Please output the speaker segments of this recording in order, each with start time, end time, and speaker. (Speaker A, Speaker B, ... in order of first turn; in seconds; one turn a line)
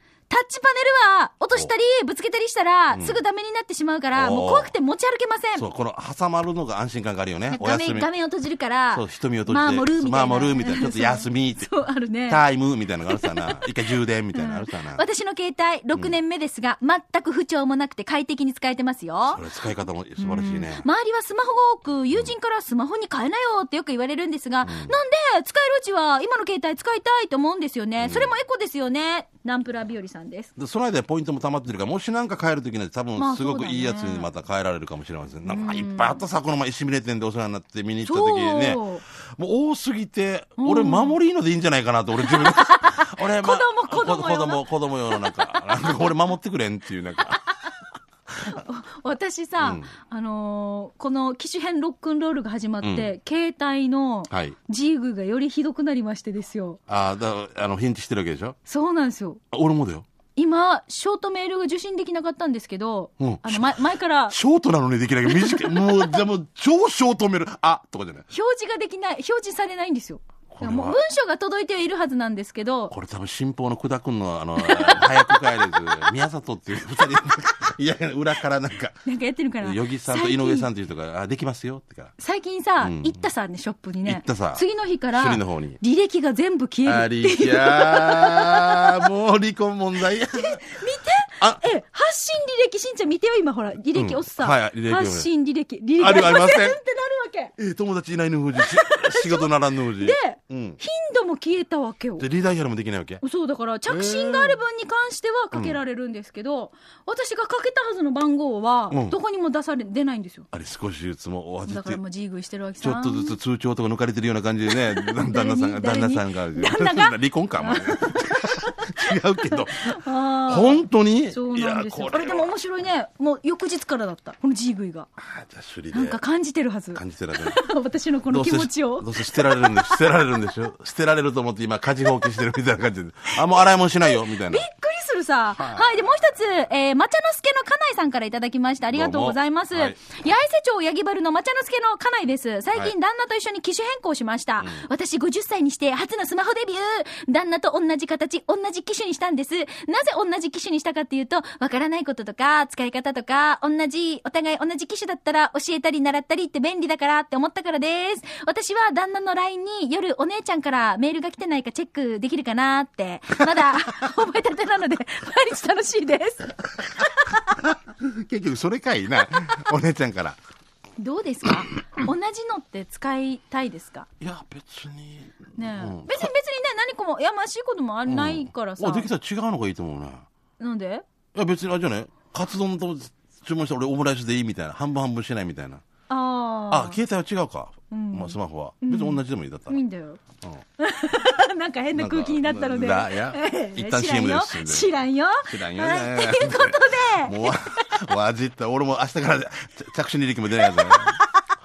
Speaker A: 0.3-5.7
Speaker B: 2.9-3.2
Speaker B: 4.1-4.7
Speaker B: 5.5-8.1
Speaker A: 7.5-12.4
Speaker B: 8.9-11.7
Speaker B: 12.3-15.0
Speaker A: 13.1-13.7
Speaker A: 14.3-19.4
Speaker B: 19.3-20.9
Speaker A: 20.2-30.5
Speaker B: 24.6-25.0
Speaker B: 28.0-28.4
Speaker B: 30.6-47.4
Speaker A: 33.2-34.3
Speaker A: 35.5-36.2
Speaker A: 38.0-39.0
Speaker A: 40.6-41.2
Speaker A: 42.2-46.1
Speaker A: 47.3-47.7
Speaker A: 48.4-56.8
Speaker B: 49.6-49.9
Speaker B: 52.8-53.1
Speaker B: 54.3-54.6
Speaker B: 56.9-58.6
Speaker A: 58.7-59.4
Speaker B: 59.5-60.0
Speaker A: 60.4-64.4
Speaker B: 63.2-63.8
Speaker B: 64.3-68.3
Speaker A: 65.2-66.2
Speaker A: 68.3-72.9
Speaker B: 70.5-71.0
Speaker B: 72.9-79.0
Speaker A: 74.6-76.1
Speaker A: 79.0-80.7
Speaker B: 79.6-82.1
Speaker A: 82.2-89.1
Speaker B: 82.8-83.2
Speaker B: 84.0-85.8
Speaker B: 86.8-90.6
Speaker A: 90.3-97.5
Speaker B: 93.9-95.3
Speaker B: 96.0-96.8
Speaker B: 97.6-100.8
Speaker A: 98.6-102.2
Speaker B: 102.2-103.2
Speaker A: 103.2-110.5
Speaker B: 103.9-104.6
Speaker B: 105.5-105.8
Speaker B: 108.9-109.2
Speaker B: 110.5-112.0
Speaker A: 111.7-113.4
Speaker B: 112.8-122.5
Speaker A: 114.7-118.9
Speaker A: 119.5-125.1
Speaker B: 125.2-126.2
Speaker A: 125.9-130.1
Speaker B: 127.0-127.6
Speaker B: 128.3-134.7
Speaker A: 134.0-167.6
Speaker B: 135.6-136.0
Speaker B: 138.9-140.0
Speaker B: 144.6-144.9
Speaker B: 167.6-170.4
Speaker A: 171.0-174.1
Speaker B: 174.2-176.3
Speaker A: 175.6-179.1
Speaker B: 178.1-180.3
Speaker A: 180.6-181.0
Speaker B: 181.3-185.8
Speaker A: 186.1-187.0
Speaker B: 186.7-189.8
Speaker A: 187.9-190.2
Speaker A: 190.8-198.0
Speaker B: 191.9-194.9
Speaker B: 195.4-201.2
Speaker A: 200.6-201.4